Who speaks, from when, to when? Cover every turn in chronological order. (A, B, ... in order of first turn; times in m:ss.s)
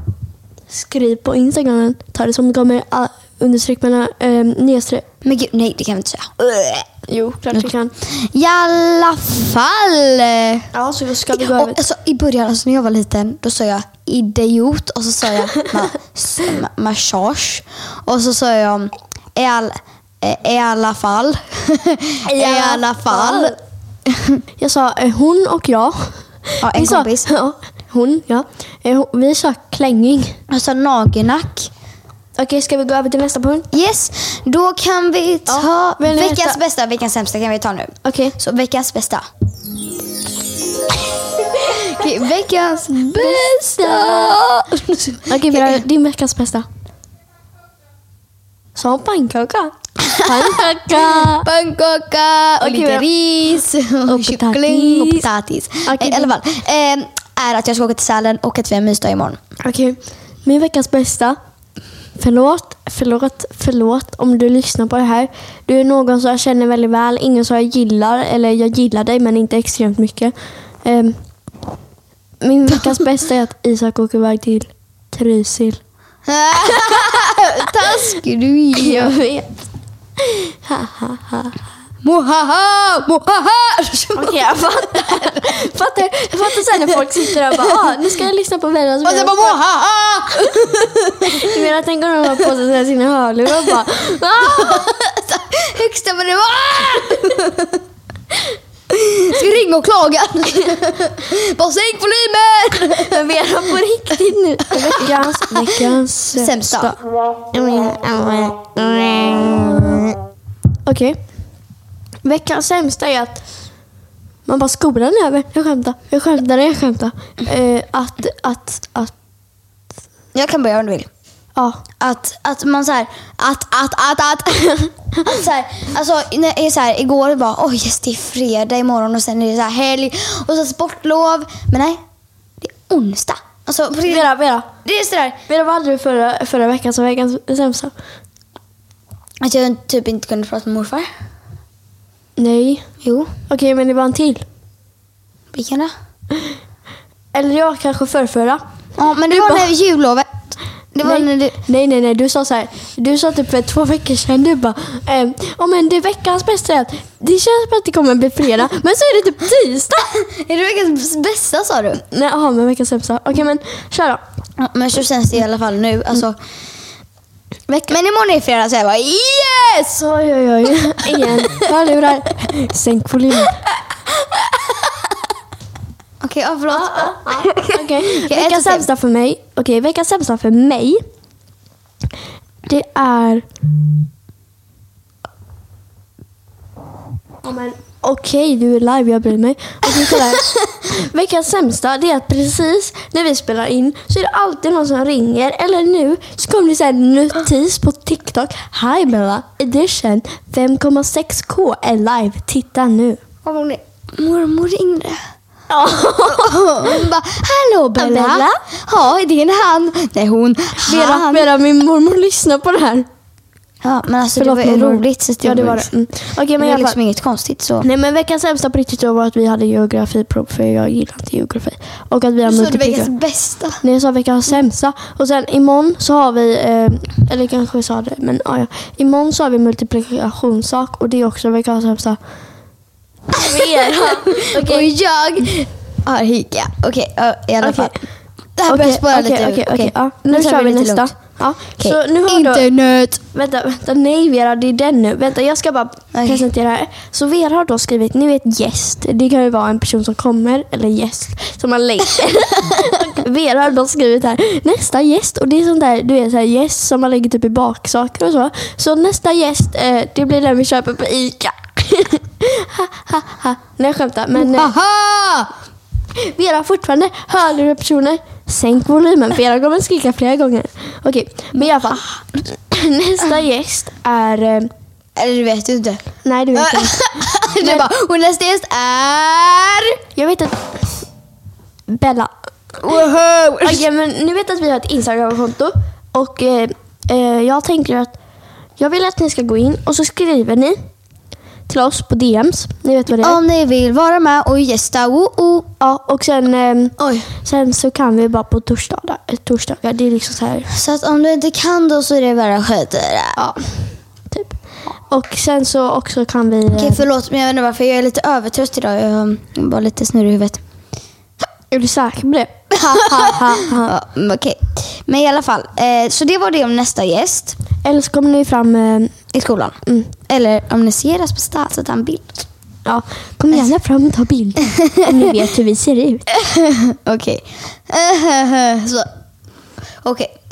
0:00.7-0:05.0 A
0:05.2-0:06.9 B
0:07.1-0:07.9 A
0:07.5-0:10.7 B
0:10.7-0:11.8 A
0:11.3-0:23.5 B
0:22.2-0:23.6 A
0:24.0-0:24.4 B
0:24.6-0:30.4 A
0:26.6-0:27.3 B
0:30.5-0:31.7 B
0:32.4-0:33.7 A
0:33.7-0:39.2 B
0:35.5-0:36.6 A
0:38.0-0:38.4 A
0:41.5-0:45.8 B
0:42.9-0:44.4 A
0:45.3-0:46.6 A
0:48.8-0:51.5 A
0:50.0-0:59.4 B
0:52.6-0:53.0 A
0:54.0-0:55.2 A
0:55.8-0:56.3 A
0:59.6-1:01.4 A
1:02.2-1:11.2 A
1:12.4-1:15.8 A
1:16.2-1:19.1 B
1:16.6-1:17.2 A
1:18.7-1:19.5 A
1:20.2-1:21.5 A
1:22.0-1:25.6 B
1:24.1-1:29.6 A
1:26.6-1:28.0 B
1:29.0-1:31.7 B
1:30.5-1:34.9 A
1:33.5-1:37.8 B
1:38.9-1:43.5 B
1:43.0-1:47.0 A
1:44.8-1:46.9 B
1:47.5-1:49.8 A
1:50.8-1:51.2 A
1:52.2-1:53.4 A
1:54.4-1:59.1 A
2:00.3-2:01.1 B
2:01.6-2:01.8 A
2:02.0-2:12.0 B
2:12.6-2:14.3 B
2:14.0-2:14.7 A
2:14.8-2:15.4 B
2:15.5-2:17.9 A
2:19.4-2:21.1 B
2:22.4-2:22.9 A
2:23.0-2:23.3 B
2:23.5-2:24.4 A
2:25.5-2:25.9 B
2:27.3-2:28.6 A
2:29.0-2:31.6 B
2:29.3-2:29.7 A
2:31.0-2:40.2 A
2:40.1-2:42.0 B
2:42.1-2:44.2 A
2:44.6-2:46.4 B
2:47.7-2:50.0 B
2:50.0-2:53.6 A
2:51.0-2:51.6 B
2:56.2-2:58.9 B
2:56.7-3:01.0 A
3:02.7-3:03.4 A
3:07.4-3:23.2 A
3:23.4-3:25.2 B
3:25.7-3:27.0 A
3:26.2-3:31.5 B
3:28.0-3:28.5 A
3:30.8-3:33.1 A
3:33.8-3:35.9 B
3:34.4-3:37.0 A
3:36.6-3:37.8 B
3:37.8-3:43.1 A
3:42.4-3:43.8 B
3:43.8-3:52.2 A
3:53.3-3:54.9 A
3:53.3-3:58.0 B
3:57.6-3:58.0 A
3:58.6-4:01.2 B
3:58.7-4:02.7 A
4:01.8-4:03.2 B
4:03.3-4:24.7 A
4:06.1-4:06.4 B
4:24.3-4:25.5 B
4:26.2-4:34.7 A
4:31.6-4:32.2 B
4:35.2-4:40.0 B
4:36.2-4:37.0 A
4:37.6-4:37.9 A
4:40.2-4:41.0 A
4:41.9-4:42.3 A
4:42.8-4:43.9 B
4:43.6-4:48.1 A
4:48.8-4:50.8 A
4:51.7-4:53.4 A
4:53.2-4:55.7 B
4:55.8-5:00.7 A
4:57.0-4:57.3 B
5:00.7-5:03.4 B
5:03.4-5:07.0 A
5:06.7-5:10.6 B
5:11.7-5:14.0 A
5:12.9-5:17.6 B
5:17.8-5:19.2 A
5:19.3-5:22.4 B
5:19.8-5:20.1 A
5:22.8-5:26.3 A
5:24.8-5:25.3 B
5:26.3-5:29.1 B
5:30.0-5:30.3 B